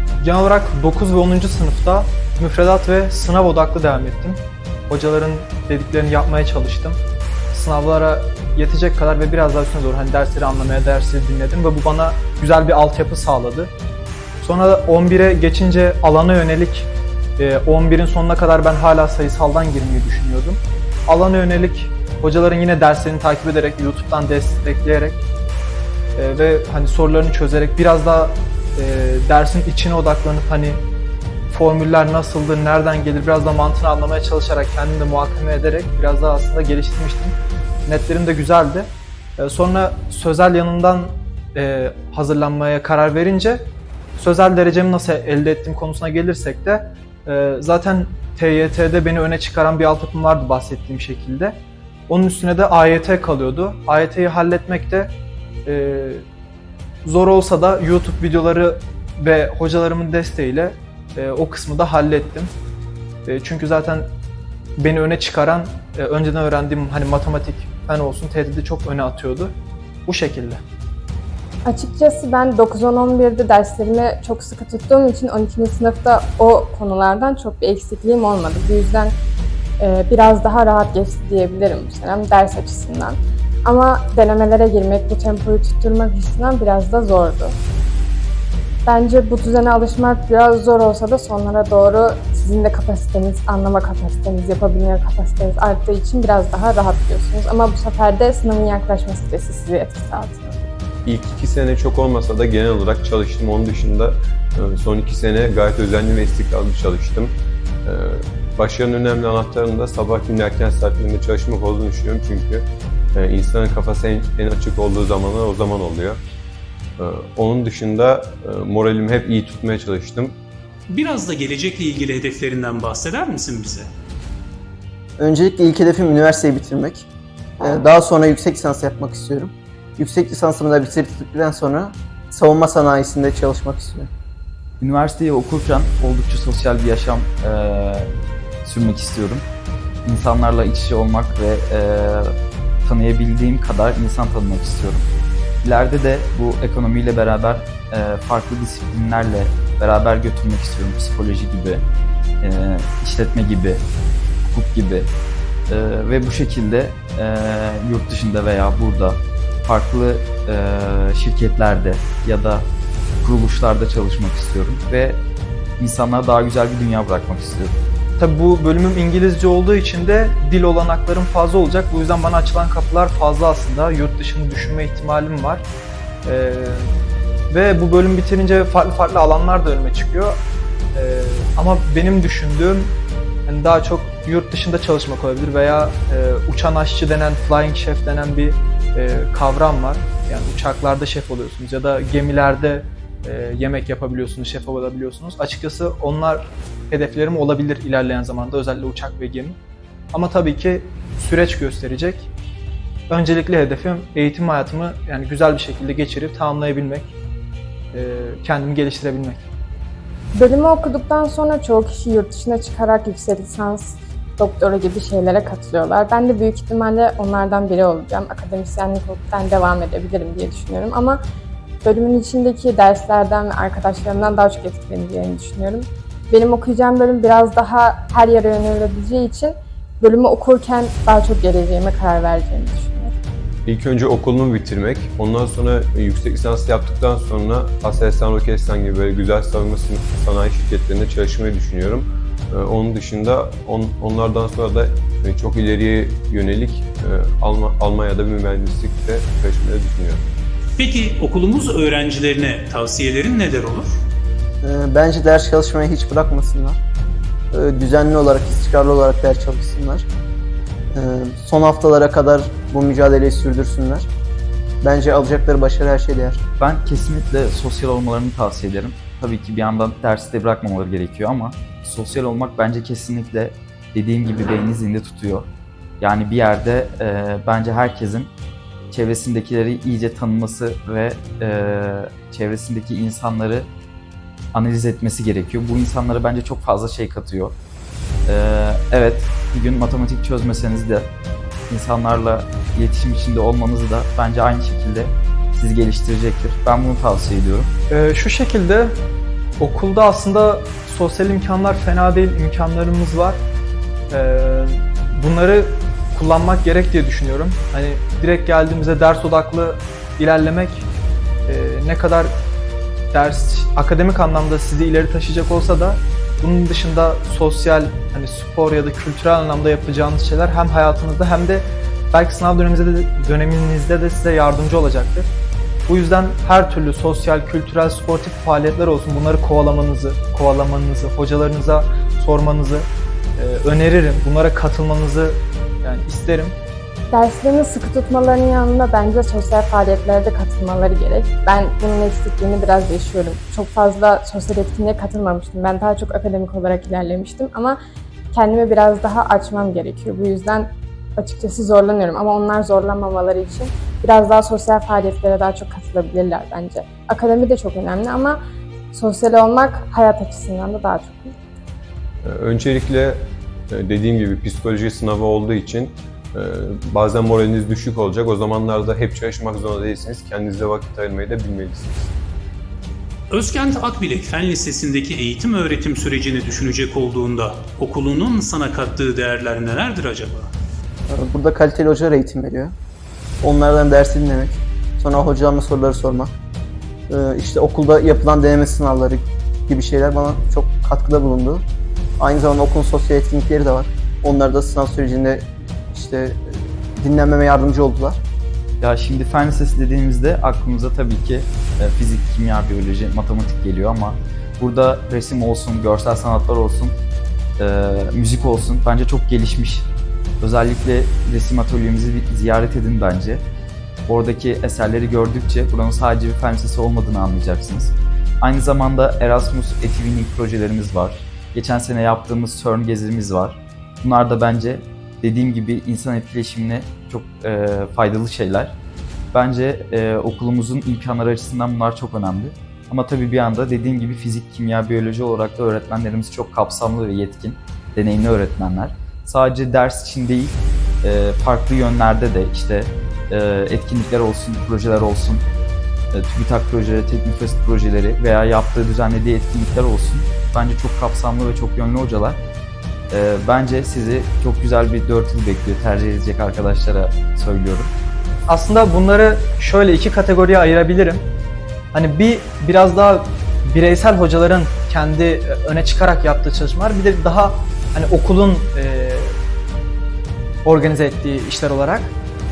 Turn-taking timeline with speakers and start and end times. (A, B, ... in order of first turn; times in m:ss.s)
0:00.2-0:07.0 A
0:07.5-0:13.7 A
0:14.4-0:25.2 A
0:26.2-0:30.8 A
0:31.5-0:37.4 A
0:37.9-0:55.1 A
0:55.6-0:56.2 A
0:57.0-1:02.5 A
1:03.2-1:04.1 A
1:04.8-1:09.5 A
1:10.1-1:10.6 A
1:11.6-1:19.1 B
1:19.8-1:27.6 B
1:28.9-1:40.6 B
1:41.0-1:56.2 C
1:57.0-2:00.4 C
2:00.9-2:03.9 D
2:05.2-2:07.1 E
2:07.6-2:14.1 E
2:14.8-2:18.1 F
2:18.6-2:19.5 F
2:20.0-2:22.3 F
2:22.8-2:25.1 F
2:25.6-2:31.8 F
2:32.4-2:33.9 F
2:34.4-2:35.1 F
2:35.7-2:42.7 F
2:43.2-2:45.2 F
2:45.8-2:47.8 F
2:48.2-2:55.7 A
2:56.2-2:57.0 A
2:57.5-3:00.4 A
3:01.0-3:03.0 A
3:03.5-3:19.6 A
3:20.1-3:22.3 A
3:23.1-3:27.2 A
3:27.9-3:29.4 A
3:30.4-3:41.2 B
3:41.8-3:53.2 B
3:53.7-4:10.3 C
4:10.8-4:14.0 D
4:14.6-4:16.8 E
4:17.5-4:20.1 E
4:20.9-4:24.1 E
4:24.8-4:26.4 E
4:26.6-4:35.5 F
4:36.0-4:38.3 F
4:38.9-4:43.7 F
4:44.5-4:47.6 F
4:48.3-4:51.1 F
4:51.7-4:57.7 F
4:57.9-4:59.1 A
4:59.6-5:03.4 A
5:04.1-5:10.9 A
5:11.5-5:12.4 A
5:13.1-5:25.3 A
5:25.9-5:36.6 A
5:37.1-5:47.8 B
5:48.3-5:58.4 B
5:58.9-6:01.4 B
6:02.2-6:12.1 C
6:13.3-6:20.5 D
6:21.1-6:22.7 E
6:23.4-6:26.4 E
6:27.1-6:31.6 E
6:32.2-6:38.2 E
6:38.8-6:47.0 F
6:47.6-6:53.4 F
6:54.1-7:08.8 F
7:09.3-7:25.4 F
7:26.1-7:32.4 F
7:33.1-7:37.9 F
7:38.5-7:41.3 A
7:41.9-7:49.4 A
7:50.6-7:52.2 A